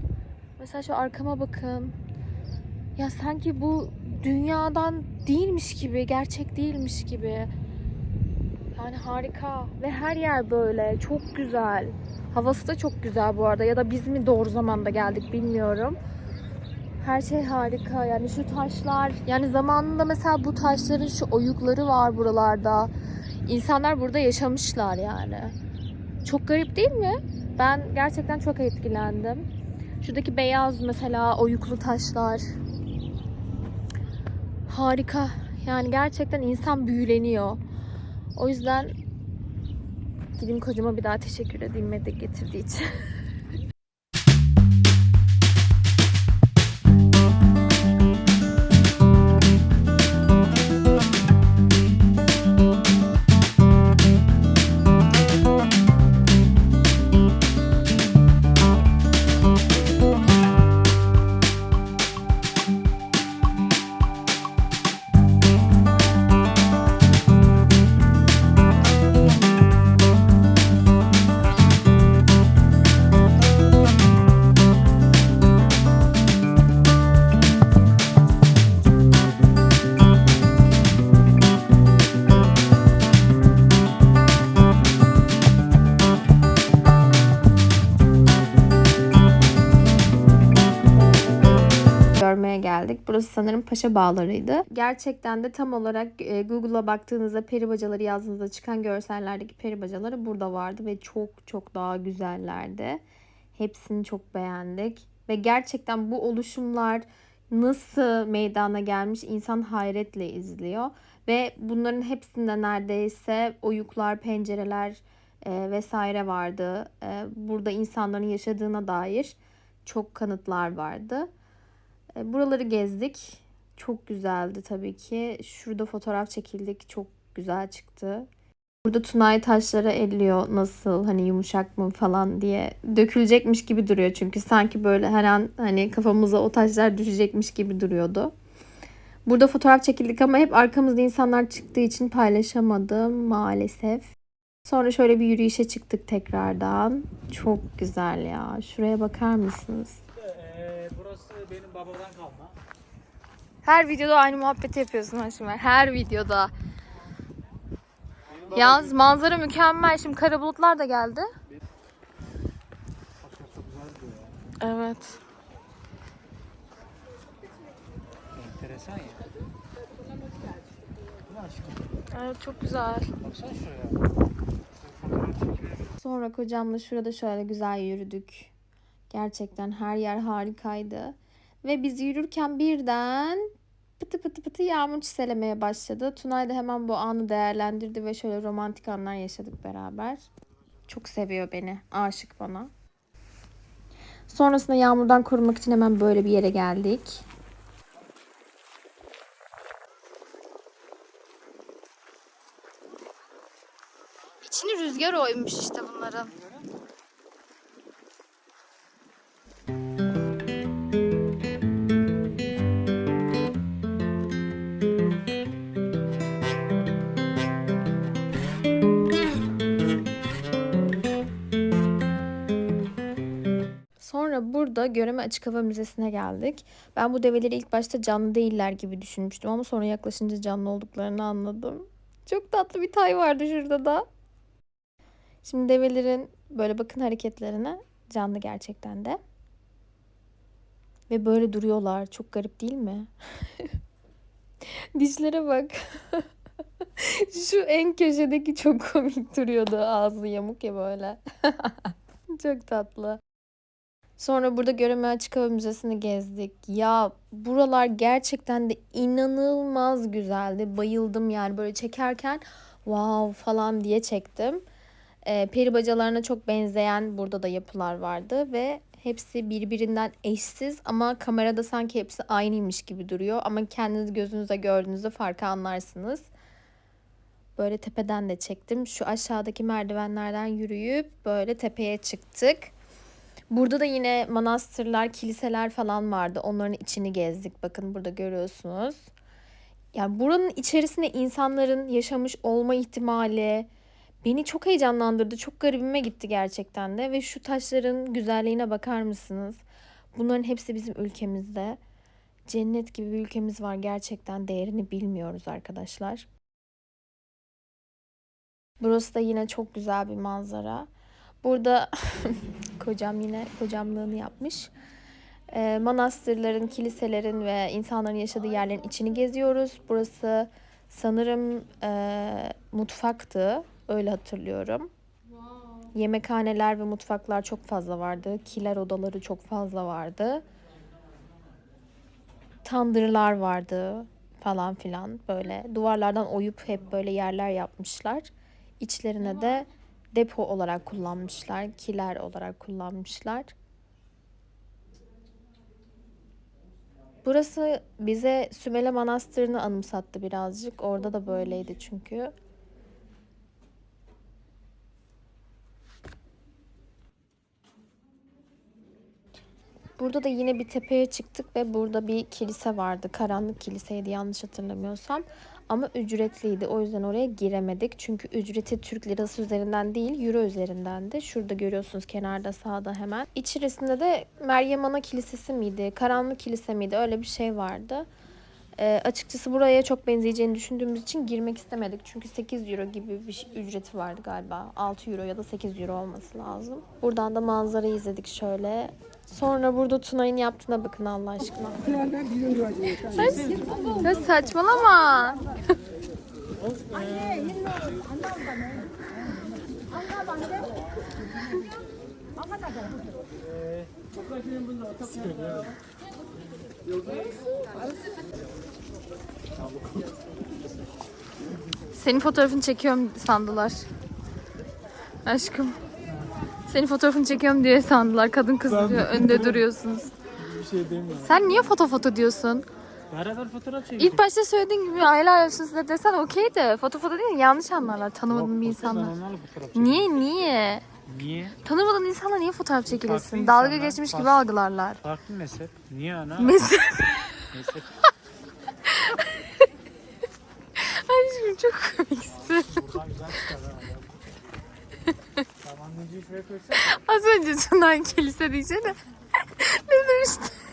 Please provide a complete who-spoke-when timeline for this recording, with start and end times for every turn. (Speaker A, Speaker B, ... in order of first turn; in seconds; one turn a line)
Speaker A: 0.6-1.9
Speaker A: 3.0-7.5
Speaker A: 8.7-16.0
Speaker A: 17.0-22.9
Speaker A: 23.4-25.5
Speaker A: 26.2-29.5
Speaker A: 30.0-32.4
Speaker A: 34.7-37.6
Speaker A: 38.4-38.9
Speaker A: 40.4-43.1
Speaker A: 92.2-103.0
Speaker A: 103.5-121.3
Speaker A: 122.2-128.3
Speaker A: 128.8-138.3
Speaker A: 139.2-144.1
Speaker A: 144.6-150.0
Speaker B: 150.2-152.6
Speaker A: 153.6-156.5
Speaker A: 158.5-161.3
Speaker B: 163.2-164.3
Speaker A: 164.6-165.2
Speaker B: 168.3-169.2
Speaker B: 171.3-171.9
Speaker A: 172.1-173.1
Speaker B: 173.2-174.0
Speaker B: 174.9-175.9
Speaker A: 176.0-178.5
Speaker A: 179.1-190.2
Speaker A: 190.9-192.7
Speaker A: 194.3-197.2
Speaker A: 204.4-206.4
Speaker A: 224.0-234.0
Speaker A: 235.4-239.2
Speaker A: 241.1-243.7
Speaker A: 244.9-246.3
Speaker A: 246.8-253.2
Speaker A: 254.2-264.6
Speaker A: 265.2-276.3
Speaker A: 277.6-282.7
Speaker A: 283.5-289.1
Speaker A: 289.9-293.7
Speaker A: 294.2-301.8
Speaker A: 302.5-306.3
Speaker A: 308.8-310.9
Speaker A: 311.4-314.7
Speaker A: 315.5-324.9
Speaker A: 325.9-330.4
Speaker A: 332.6-343.5
Speaker A: 347.2-352.3
Speaker A: 360.0-378.1
Speaker A: 378.8-392.0
Speaker A: 393.0-395.4
Speaker B: 396.7-397.9
Speaker B: 405.1-405.6
Speaker A: 411.9-413.9
Speaker A: 415.2-415.8
Speaker A: 416.7-420.1
Speaker B: 418.7-419.6
Speaker B: 420.5-421.3
Speaker A: 421.2-422.6
Speaker B: 423.1-424.2
Speaker A: 424.0-429.1
Speaker B: 428.3-430.1
Speaker A: 429.7-430.9
Speaker B: 431.1-431.6
Speaker A: 431.6-435.0
Speaker B: 432.9-434.5
Speaker B: 435.0-436.6
Speaker A: 436.4-437.5
Speaker B: 437.5-437.9
Speaker A: 438.9-439.5
Speaker A: 440.8-442.9
Speaker B: 442.5-444.1
Speaker B: 445.6-446.8
Speaker A: 446.7-449.0
Speaker A: 449.6-450.6